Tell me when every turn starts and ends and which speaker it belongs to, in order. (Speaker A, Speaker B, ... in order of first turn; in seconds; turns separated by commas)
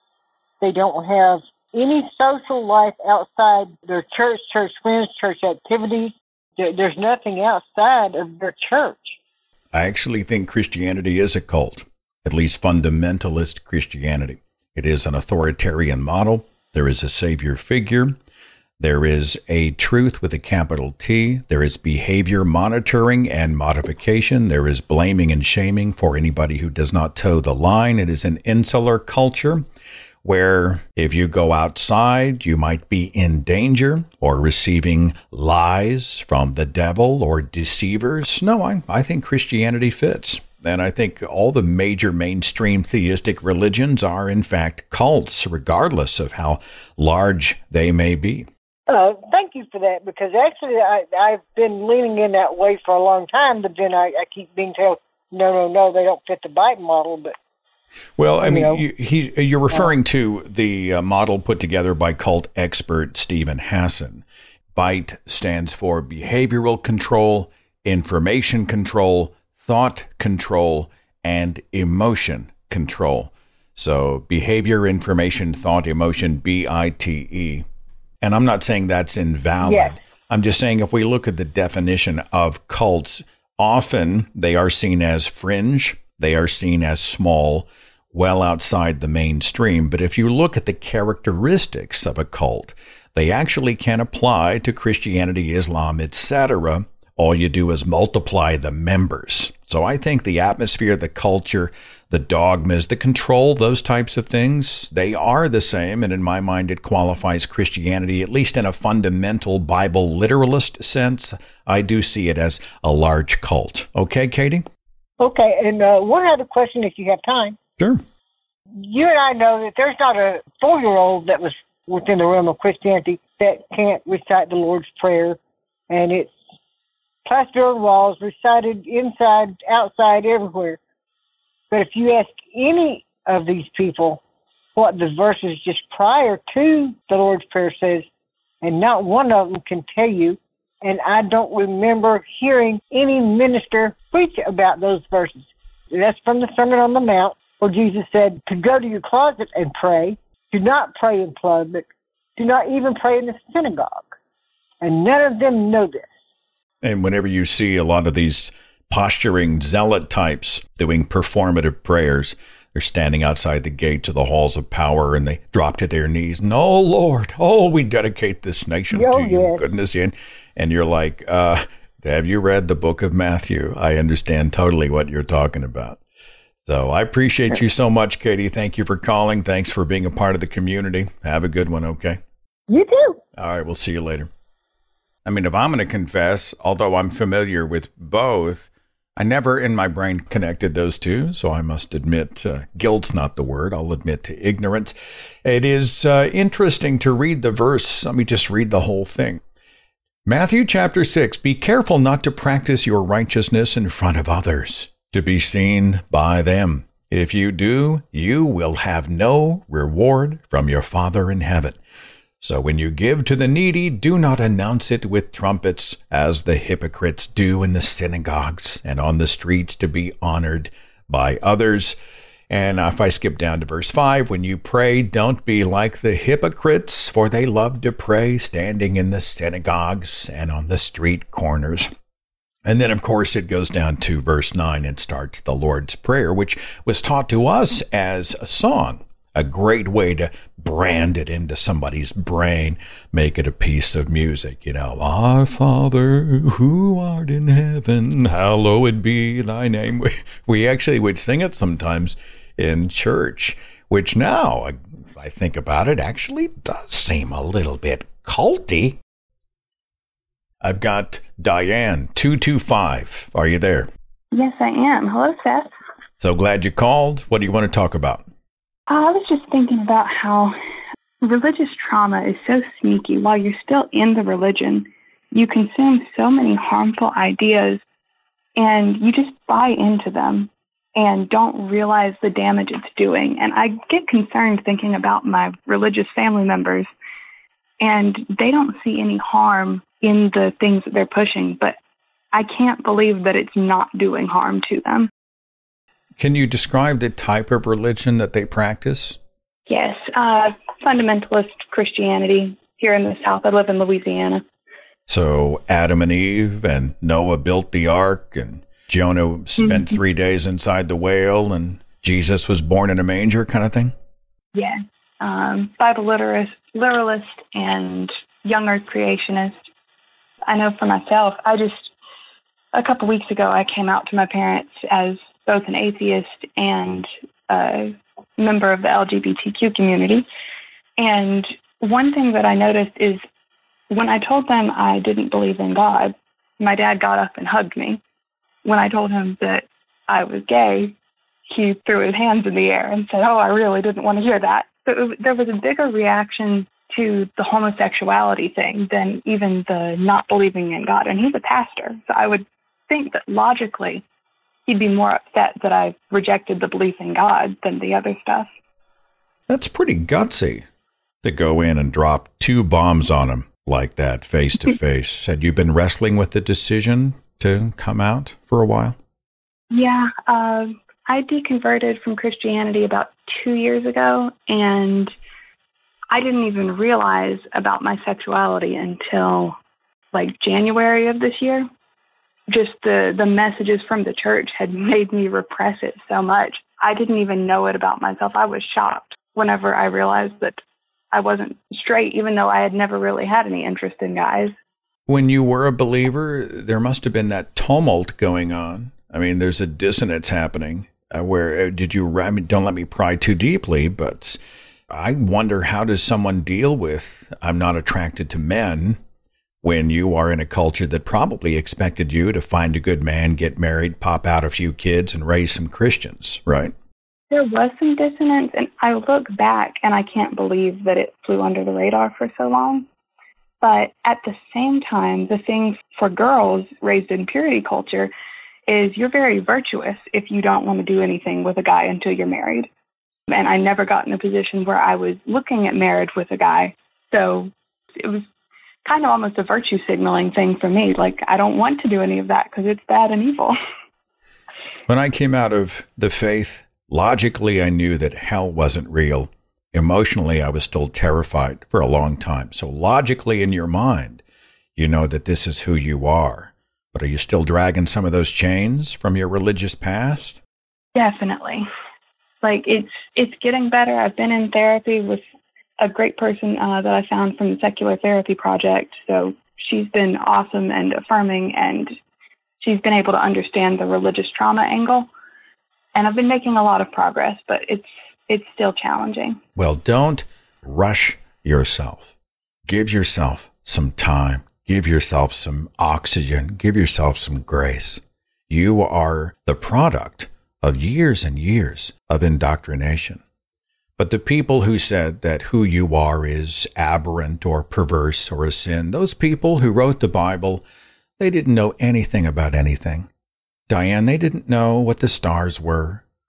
Speaker A: 0.6-9.2, Speaker B: 9.7-18.2, Speaker B: 18.8-29.7, Speaker B: 30.2-48.5, Speaker A: 48.9-57.4, Speaker B: 58.2-64.2, Speaker A: 58.4-58.8, Speaker B: 64.7-77.6, Speaker B: 78.2-114.7, Speaker A: 79.6-79.9, Speaker A: 115.2-117.6, Speaker A: 118.8-125.4, Speaker A: 125.9-126.3, Speaker A: 127.2-130.8, Speaker A: 131.7-134.2, Speaker A: 134.8-138.1, Speaker A: 138.6-154.1, Speaker A: 154.8-156.1, Speaker B: 156.8-176.0, Speaker A: 168.9-169.6, Speaker B: 176.6-182.2, Speaker A: 182.7-183.2, Speaker B: 183.4-184.3, Speaker B: 185.2-199.4, Speaker B: 200.2-211.8, Speaker B: 212.4-222.0, Speaker B: 222.5-231.9, Speaker B: 232.6-259.0, Speaker B: 260.6-263.9, Speaker C: 264.3-265.7, Speaker B: 266.2-268.2, Speaker C: 268.9-270.6, Speaker C: 271.2-277.8, Speaker C: 278.6-286.9, Speaker C: 287.8-291.8, Speaker C: 292.3-295.1, Speaker B: 296.2-299.2, Speaker C: 299.7-304.4, Speaker B: 305.1-313.9, Speaker C: 314.5-319.5, Speaker C: 320.4-321.9, Speaker C: 322.7-330.3, Speaker C: 331.0-333.2, Speaker C: 333.9-338.0, Speaker C: 338.6-340.9, Speaker C: 341.5-354.0, Speaker C: 354.6-358.5, Speaker B: 359.5-360.6, Speaker B: 361.2-368.9, Speaker C: 369.7-375.1, Speaker C: 376.1-379.5, Speaker C: 380.1-381.7, Speaker C: 382.5-390.6, Speaker C: 391.1-394.5, Speaker B: 395.1-409.0, Speaker B: 409.6-416.7, Speaker C: 417.3-422.9, Speaker C: 423.6-428.1, Speaker C: 428.7-432.7, Speaker C: 433.3-438.2, Speaker C: 438.8-443.6, Speaker B: 444.9-454.2, Speaker B: 454.8-460.4, Speaker C: 460.9-461.6, Speaker C: 462.4-465.2, Speaker C: 465.8-471.9, Speaker C: 472.6-475.1, Speaker C: 475.9-479.4, Speaker B: 479.6-482.1, Speaker B: 482.6-493.2, Speaker B: 494.0-500.6, Speaker B: 501.2-503.1, Speaker B: 503.7-506.0